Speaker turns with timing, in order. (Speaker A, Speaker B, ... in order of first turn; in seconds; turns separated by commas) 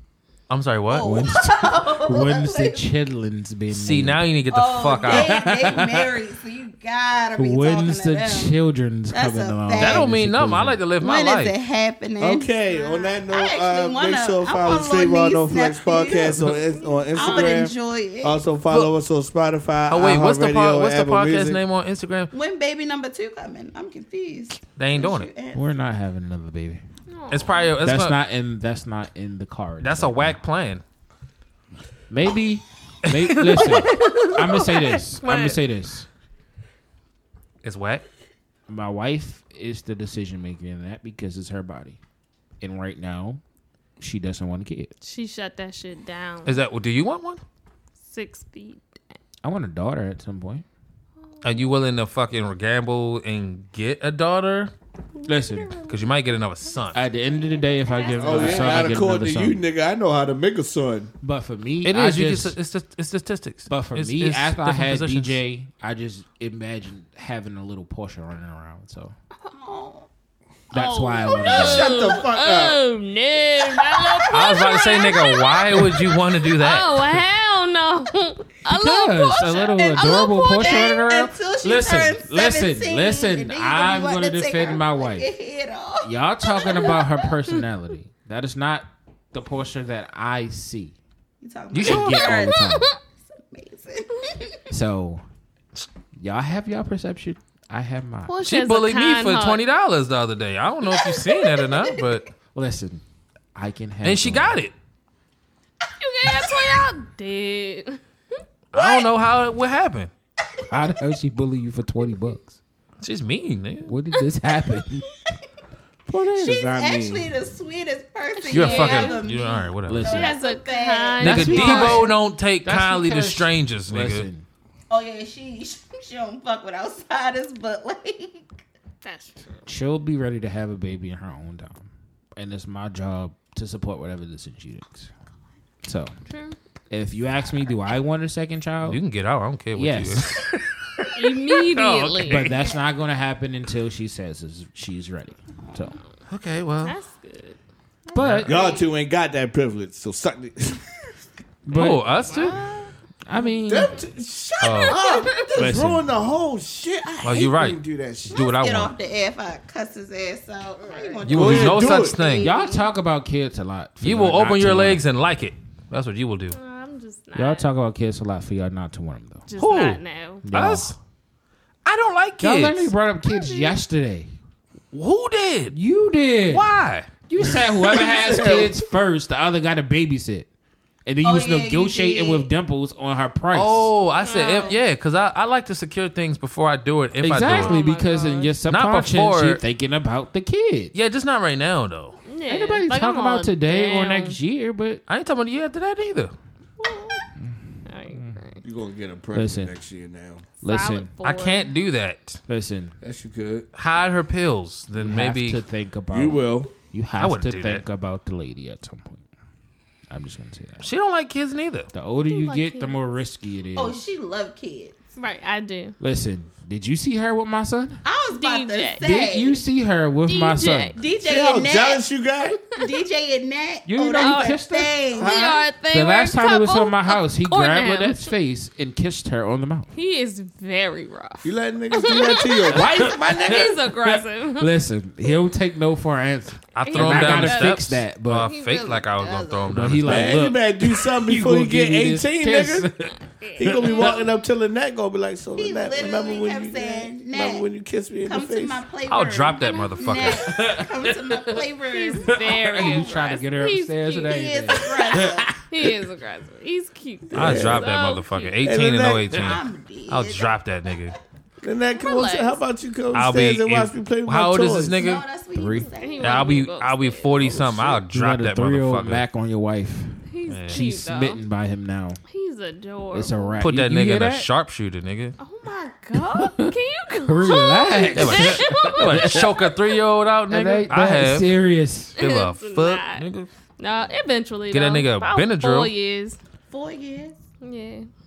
Speaker A: 0.5-1.2, Speaker B: 0.9-2.9, Speaker C: 1.0-4.2, Speaker A: 3.7-5.4, Speaker B: 4.5-8.5, Speaker C: 5.0-6.1, Speaker C: 7.4-10.8, Speaker B: 9.1-10.1, Speaker A: 9.8-11.6, Speaker B: 11.0-18.4, Speaker D: 12.2-21.6, Speaker E: 16.7-17.7, Speaker A: 19.9-22.3, Speaker B: 22.3-25.7, Speaker A: 24.7-25.3, Speaker C: 25.5-26.8, Speaker E: 27.1-27.8, Speaker A: 27.3-28.2, Speaker C: 27.8-30.4, Speaker A: 29.8-30.8, Speaker C: 32.1-36.1, Speaker A: 33.1-35.6, Speaker E: 33.7-34.9, Speaker A: 37.6-38.1, Speaker C: 38.7-42.0, Speaker C: 42.6-43.4, Speaker C: 44.0-44.9, Speaker E: 45.0-46.6, Speaker A: 46.5-47.4, Speaker E: 48.0-49.0, Speaker C: 49.4-50.6, Speaker E: 51.2-51.7, Speaker A: 51.4-54.7, Speaker C: 55.2-55.8, Speaker A: 55.9-57.0, Speaker C: 56.9-59.6, Speaker E: 57.9-58.9, Speaker B: 57.9-58.9, Speaker D: 58.2-61.1, Speaker C: 61.2-62.6, Speaker A: 61.8-65.4, Speaker C: 63.7-69.1, Speaker B: 69.4-70.1, Speaker C: 70.7-71.9, Speaker E: 70.7-81.0, Speaker D: 71.4-72.8, Speaker B: 71.8-72.3, Speaker B: 73.6-74.4, Speaker A: 74.3-77.2, Speaker C: 78.7-85.3, Speaker B: 80.0-87.0, Speaker C: 86.0-91.0, Speaker E: 86.6-86.9, Speaker B: 91.4-94.6, Speaker C: 91.7-92.9, Speaker A: 91.8-92.2, Speaker E: 92.2-93.0, Speaker C: 94.7-95.2, Speaker C: 96.2-98.4, Speaker E: 98.3-99.6, Speaker A: 98.4-102.3, Speaker B: 100.9-102.0, Speaker C: 102.5-103.0, Speaker C: 103.5-104.6, Speaker A: 104.0-104.7, Speaker E: 106.0-108.0, Speaker B: 106.3-106.8, Speaker A: 108.7-110.1, Speaker B: 108.8-109.1, Speaker C: 110.7-112.6, Speaker A: 113.0-113.9, Speaker C: 113.9-115.1, Speaker C: 116.1-116.6, Speaker D: 116.3-117.3, Speaker B: 116.4-122.2, Speaker E: 118.5-119.2, Speaker A: 118.5-120.2, Speaker C: 119.9-120.4, Speaker E: 120.1-122.1, Speaker A: 121.2-124.3, Speaker C: 121.2-124.5, Speaker B: 124.9-128.5, Speaker E: 129.0-129.6, Speaker C: 129.7-135.1, Speaker C: 135.8-136.2, Speaker E: 136.3-136.6, Speaker C: 136.9-139.0, Speaker A: 138.8-142.5, Speaker C: 139.8-140.4, Speaker E: 141.2-142.5, Speaker C: 142.2-146.0, Speaker B: 142.4-142.8, Speaker A: 146.3-147.0, Speaker E: 146.8-147.6, Speaker C: 148.1-148.5, Speaker B: 148.1-148.9, Speaker A: 148.2-148.5, Speaker D: 148.4-150.9, Speaker C: 151.7-152.2, Speaker A: 151.7-152.6, Speaker E: 152.4-152.9, Speaker C: 153.3-154.0, Speaker D: 153.7-158.4, Speaker A: 154.6-155.0, Speaker B: 154.6-155.8, Speaker C: 155.6-156.1, Speaker A: 157.2-158.9, Speaker B: 158.3-162.9, Speaker A: 161.2-162.5, Speaker D: 161.3-162.2, Speaker C: 162.4-165.0, Speaker A: 164.0-166.6, Speaker E: 166.5-167.7, Speaker C: 167.3-169.5, Speaker E: 169.5-170.4, Speaker A: 169.6-171.0, Speaker C: 170.4-170.9, Speaker A: 171.8-172.9, Speaker C: 172.4-174.3, Speaker E: 173.2-173.8, Speaker A: 174.9-175.8, Speaker C: 175.7-176.7, Speaker A: 176.5-177.1, Speaker C: 177.3-180.5, Speaker D: 177.8-178.8, Speaker C: 181.1-183.9, Speaker B: 181.2-182.5, Speaker A: 183.5-187.8, Speaker E: 184.2-184.8, Speaker C: 187.2-190.9, Speaker E: 187.4-188.6, Speaker A: 188.7-189.6, Speaker A: 190.9-192.2, Speaker E: 192.2-194.4, Speaker C: 192.5-195.0, Speaker A: 195.1-196.3, Speaker E: 196.8-197.3, Speaker C: 197.4-198.4, Speaker E: 197.9-198.6, Speaker D: 198.6-200.4, Speaker C: 199.3-199.7, Speaker C: 200.6-201.1, Speaker E: 200.6-201.7, Speaker A: 201.2-202.4, Speaker C: 202.5-203.0, Speaker D: 203.0-203.7, Speaker A: 203.8-205.6, Speaker C: 205.0-209.2, Speaker D: 206.1-206.7, Speaker A: 207.2-207.8, Speaker C: 210.1-210.9, Speaker A: 210.8-211.9, Speaker C: 211.9-214.0, Speaker E: 212.3-213.0, Speaker B: 213.8-215.0, Speaker E: 215.2-216.0, Speaker C: 216.0-218.0, Speaker B: 218.1-219.6, Speaker E: 218.3-219.0, Speaker C: 219.0-221.0, Speaker E: 220.3-221.0, Speaker B: 220.9-222.1, Speaker D: 221.2-222.6, Speaker B: 222.8-225.6, Speaker C: 223.9-225.1, Speaker E: 224.2-224.6, Speaker D: 225.2-225.7, Speaker E: 225.2-228.3, Speaker C: 225.9-229.9, Speaker E: 229.9-234.7, Speaker D: 231.4-233.2, Speaker C: 232.7-238.5, Speaker A: 236.8-240.4, Speaker E: 236.8-237.9, Speaker E: 238.4-239.4, Speaker B: 239.1-239.8, Speaker C: 239.7-244.2, Speaker D: 240.0-242.9, Speaker E: 243.2-244.2, Speaker D: 243.6-248.8, Speaker B: 245.6-247.7, Speaker B: 248.2-253.4, Speaker A: 249.1-250.7, Speaker C: 250.2-251.5, Speaker E: 251.8-258.7, Speaker C: 252.2-255.9, Speaker B: 254.3-255.6, Speaker D: 257.3-257.9, Speaker A: 257.3-261.2, Speaker D: 258.6-259.4, Speaker B: 259.3-261.2, Speaker D: 261.6-265.1, Speaker E: 261.9-262.6, Speaker A: 263.1-265.2, Speaker B: 264.9-266.6, Speaker C: 265.5-265.9, Speaker E: 266.0-267.4, Speaker A: 266.2-269.3, Speaker D: 267.4-268.0, Speaker C: 268.0-272.2, Speaker E: 270.3-271.4, Speaker A: 270.5-270.8, Speaker E: 272.3-273.6, Speaker C: 273.1-274.5, Speaker A: 273.6-275.4, Speaker E: 275.4-279.7, Speaker C: 276.1-276.7, Speaker C: 277.2-279.6, Speaker A: 278.1-281.5, Speaker C: 280.5-282.2, Speaker E: 282.2-283.3, Speaker A: 282.2-283.5, Speaker E: 283.8-286.4, Speaker A: 284.7-285.9, Speaker B: 286.7-287.4, Speaker E: 287.6-288.1